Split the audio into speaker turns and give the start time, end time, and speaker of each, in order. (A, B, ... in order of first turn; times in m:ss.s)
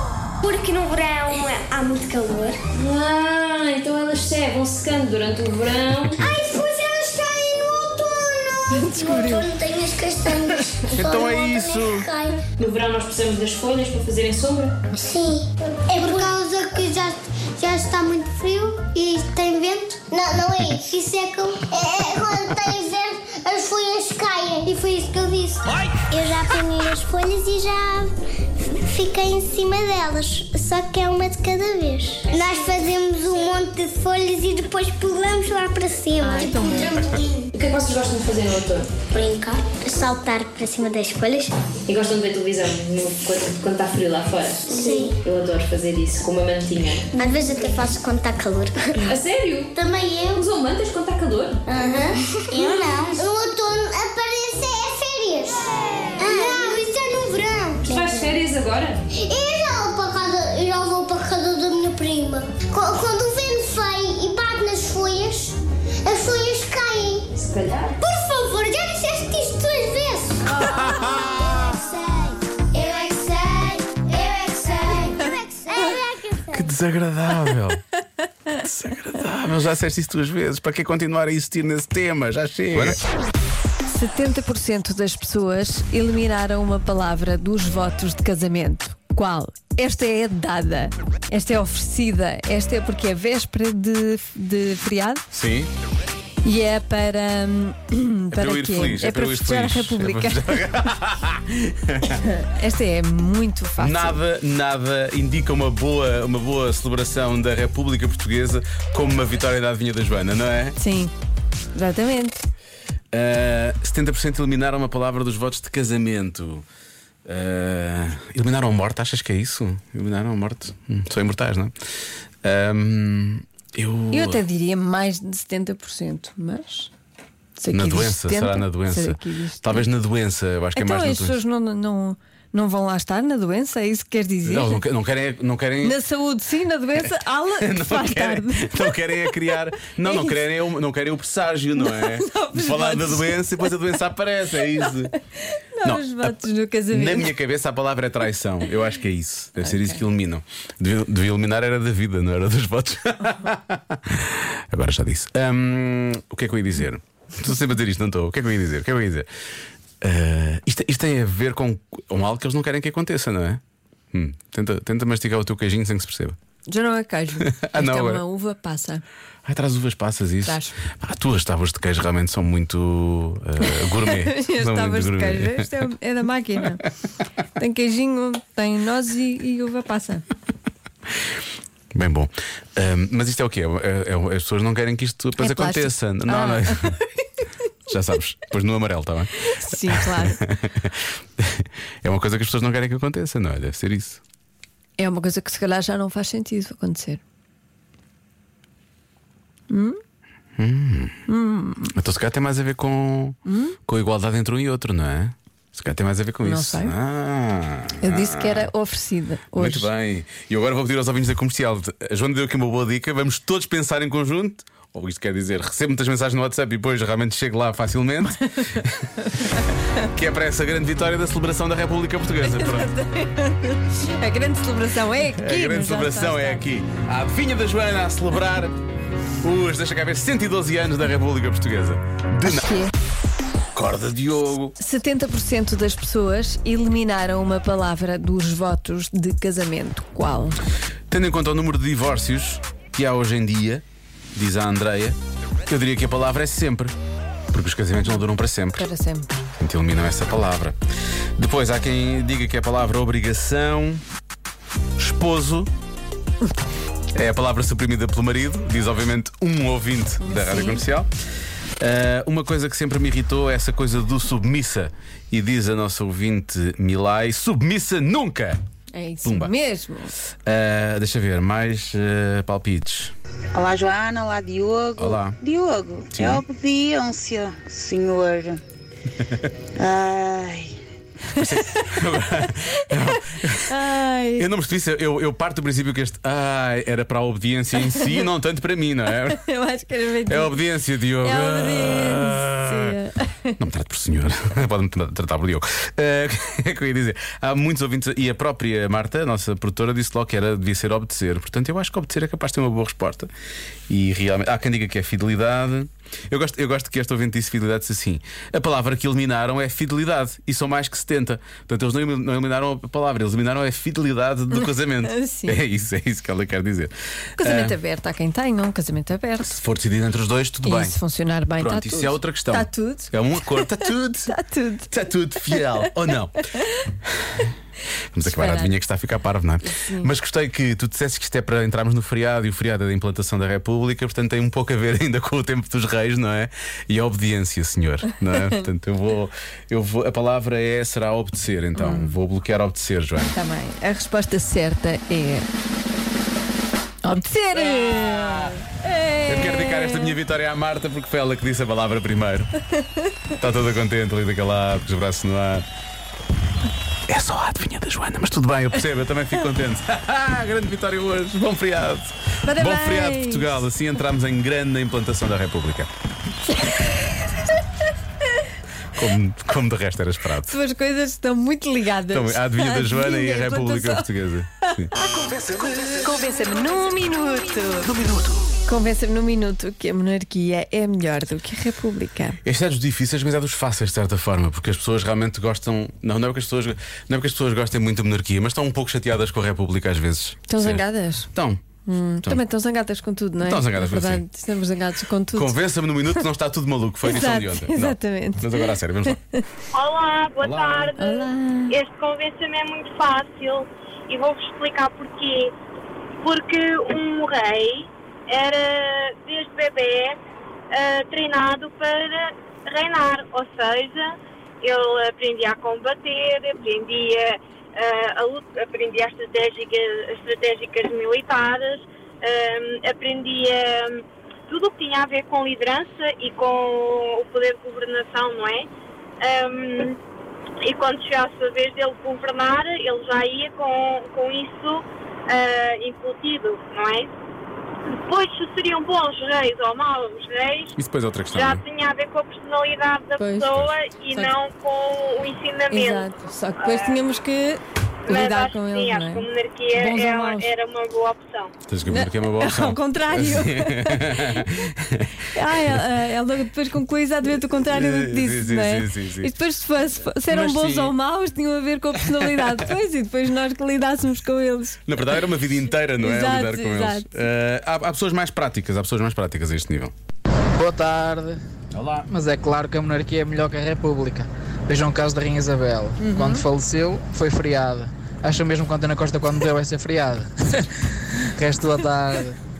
0:01.2-0:02.5 A
0:02.7-0:06.2 B
0:06.1-0:06.4 C
0:06.2-0:12.4 A
0:08.7-0:09.5 D
0:10.9-0:12.1 C
0:12.6-0:14.8 B
0:15.0-0:37.4 A
0:16.0-0:16.3 B
0:36.2-0:37.0 D
0:37.5-0:38.9 B
0:39.1-0:41.5 A
0:41.8-0:47.1 B
0:44.7-0:45.2 A
0:47.2-0:49.0 A
0:49.0-0:49.7 B
0:49.7-0:50.4 A
0:50.3-0:51.6 B
0:51.7-0:55.6 A
0:56.2-0:58.3 A
0:56.3-0:56.7 B
0:57.8-0:59.0 B
0:59.1-1:07.3 A
1:07.3-1:08.0 B
1:08.0-1:10.6 A
1:10.5-1:11.7 C
1:11.6-1:16.6 A
1:16.5-1:17.8 C
1:18.6-1:23.0 C
1:23.9-1:35.2 D
1:35.3-1:35.7 C
1:36.4-1:40.5 D
1:38.3-1:42.2 C
1:42.4-1:44.2 D
1:43.8-1:50.8 C
1:50.8-1:51.1 D
1:51.7-1:52.4 D
1:53.1-1:56.6 C
1:57.2-2:01.7 C
2:02.4-2:04.4 C
2:04.1-2:06.9 D
2:07.6-2:09.9 D
2:07.7-2:11.4 C
2:10.7-2:14.8 D
2:14.4-2:16.0 C
2:15.8-2:20.5 D
2:17.0-2:25.1 C
2:21.8-2:23.7 D
2:24.8-2:27.3 D
2:25.8-2:26.4 C
2:26.9-2:39.3 C
2:29.6-2:30.0 D
2:40.0-2:43.6 C
2:44.1-2:46.4 C
2:46.7-2:49.0 D
2:47.4-2:48.2 C
2:49.4-2:55.9 C
2:50.4-2:50.7 D
2:53.6-2:56.8 D
2:57.6-3:00.2 D
3:01.9-3:07.0 C
3:05.4-3:07.0 D
3:07.9-3:09.3 C
3:09.4-3:10.4 D
3:09.8-3:14.2 C
3:15.0-3:17.2 D
3:19.7-3:20.0 D
3:20.6-3:21.2 C
3:21.3-3:21.9 D
3:21.9-3:28.7 C
3:23.4-3:23.8 D
3:26.4-3:27.0 D
3:28.0-3:29.9 D
3:29.5-3:39.0 C
3:40.0-3:42.9 C
3:42.4-3:46.6 D
3:45.3-3:48.8 C
3:49.4-3:52.7 C
3:52.4-3:52.9 D
3:53.7-3:54.7 C
3:54.8-4:00.6 D
4:01.1-4:05.2 C
4:05.7-4:06.9 C
4:07.5-4:08.9 C
4:08.7-4:09.3 D
4:09.6-4:10.8 C
4:11.4-4:14.0 C
4:15.0-4:15.7 C
4:17.1-4:21.1 C
4:20.2-4:20.8 D
4:21.8-4:28.6 C
4:28.9-4:30.1 D
4:29.2-4:29.5 C
4:30.4-4:33.1 C
4:33.5-4:38.6 E
4:35.0-4:35.4 C
4:36.1-4:36.4 C
4:39.8-4:40.6 E
4:41.4-4:43.8 C
4:41.4-4:41.9 D
4:43.0-4:44.5 D
4:44.4-4:49.4 C
4:47.9-4:48.2 D
4:49.3-4:50.6 D
4:50.3-4:53.0 C
4:51.2-4:53.6 D
4:53.6-5:03.3 C
5:03.9-5:17.8 C
5:14.5-5:15.6 D
5:17.4-5:19.6 D
5:19.4-5:21.0 C
5:20.6-5:23.8 D
5:21.6-5:24.3 C
5:24.3-5:24.9 D
5:24.9-5:26.4 C
5:25.4-5:25.8 D
5:28.1-5:43.3 C
5:28.2-5:28.7 D
5:29.6-5:30.1 D
5:41.7-5:42.2 D
5:43.3-5:45.5 D
5:47.0-5:50.2 D
5:47.5-5:48.5 C
5:49.2-5:52.5 C
5:53.4-5:55.6 C
5:57.1-6:05.9 C
6:02.4-6:03.6 D
6:08.9-6:10.6 C
6:10.5-6:14.1 D
6:12.1-6:16.0 C
6:15.8-6:17.9 D
6:17.8-6:18.5 C
6:18.6-6:22.4 D
6:22.4-6:31.6 C
6:30.5-6:31.3 D
6:31.8-6:36.2 D
6:33.4-6:34.2 C
6:35.3-6:39.2 C
6:37.0-6:39.4 D
6:39.7-6:45.5 F
6:40.4-6:40.9 C
6:41.0-6:41.8 D
6:46.2-6:50.2 F
6:50.7-7:08.7 F
7:09.2-7:10.0 F
7:10.6-7:17.1 F
7:18.1-7:20.7 F
7:20.8-7:21.6 C
7:21.3-7:26.1 F
7:23.2-7:23.5 D
7:24.1-7:24.4 D
7:25.7-7:30.5 D
7:26.6-7:27.0 F
7:28.1-7:31.5 F
7:31.7-7:35.1 C
7:31.9-7:34.4 D
7:35.3-7:45.0 D
7:37.6-7:39.3 C
7:40.3-7:40.9 C
7:42.1-7:42.6 C
7:44.9-7:49.9 C
7:45.8-7:47.1 D
7:50.6-7:51.4 G
7:51.7-7:52.1 C
7:52.1-8:00.7 G
7:56.0-7:56.4 D
8:01.4-8:02.4 G